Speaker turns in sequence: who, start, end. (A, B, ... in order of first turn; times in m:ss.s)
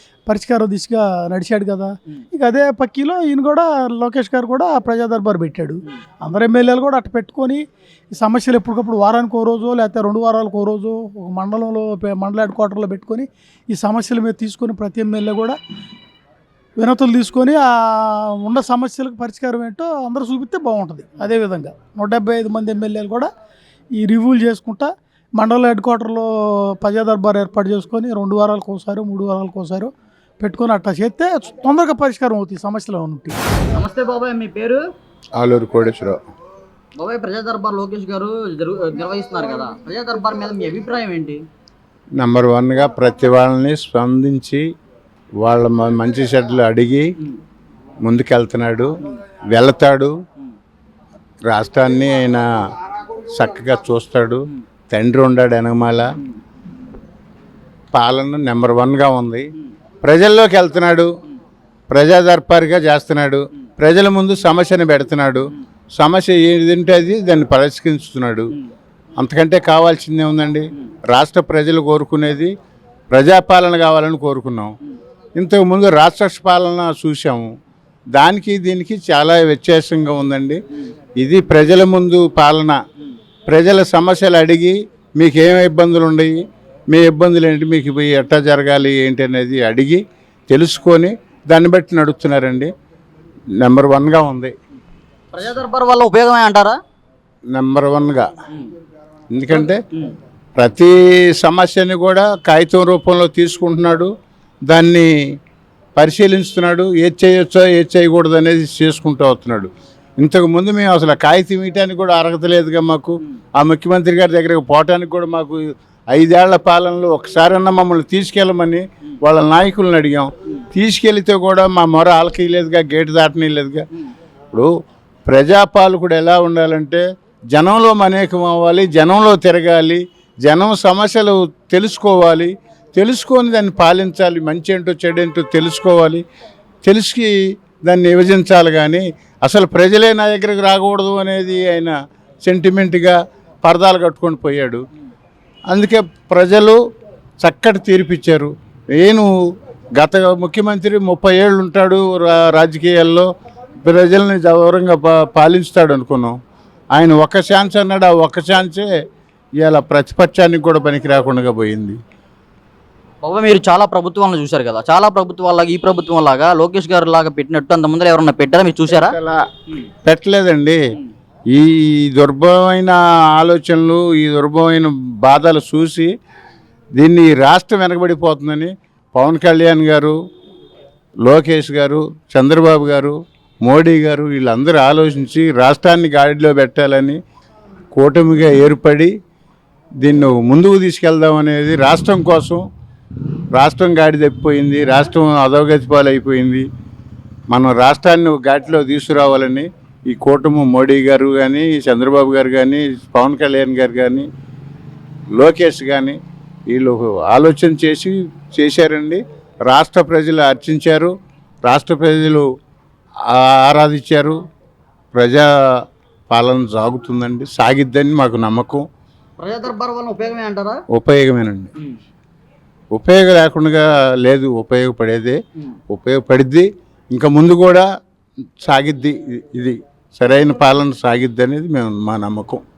0:00.3-0:15.6 A
0:16.8-0:23.3 A
0:23.9-0:33.4 A
0:33.7-0:34.8 B
0:35.4-0:36.2 C
0:37.0-0:41.4 B
0:42.2-0:44.6 C
0:45.4-0:47.1 C
0:48.0-0:48.9 C
0:49.5-0:50.1 C
0:51.5-0:52.4 C
0:53.3-0:56.1 C
0:57.9-0:59.5 C
1:00.0-1:01.1 C
1:01.9-1:08.5 C
1:09.2-1:12.5 C
1:13.1-1:14.7 C
1:15.4-1:17.5 C
1:18.2-1:20.6 C
1:21.2-1:22.8 C
1:23.5-1:26.4 C
1:26.9-1:32.7 C
1:33.6-1:34.5 C
1:35.3-1:36.8 B
1:37.5-1:38.3 C
1:39.4-1:39.8 C
1:39.5-1:40.1 B
1:40.6-1:44.1 C
1:44.7-1:45.1 C
1:46.0-1:49.7 C
1:50.2-1:55.6 C
1:56.1-2:03.8 C
2:05.3-2:07.0 C
2:07.5-2:16.2 C
2:16.9-2:17.3 C
2:17.8-2:21.9 C
2:22.5-2:24.8 C
2:25.7-2:26.8 C
2:27.4-2:29.3 C
2:30.0-2:33.3 C
2:33.8-2:36.4 C
2:37.0-2:38.9 C
2:39.6-2:42.0 C
2:43.2-2:49.1 B
2:48.9-2:49.4 C
2:50.0-2:50.8 C
2:51.5-2:56.1 C
2:57.0-3:00.2 C
3:01.2-3:07.2 C
3:08.0-3:09.1 C
3:10.0-3:12.6 C
3:13.6-3:16.6 C
3:17.5-3:24.3 C
3:25.4-3:26.2 C
3:26.7-3:31.1 C
3:31.7-3:32.4 C
3:33.3-3:34.4 C
3:35.1-3:35.4 C
3:36.3-3:38.8 C
3:39.4-3:40.8 B
3:40.9-3:41.7 C
3:42.9-3:45.4 C
3:45.9-3:47.8 C
3:48.6-3:52.6 C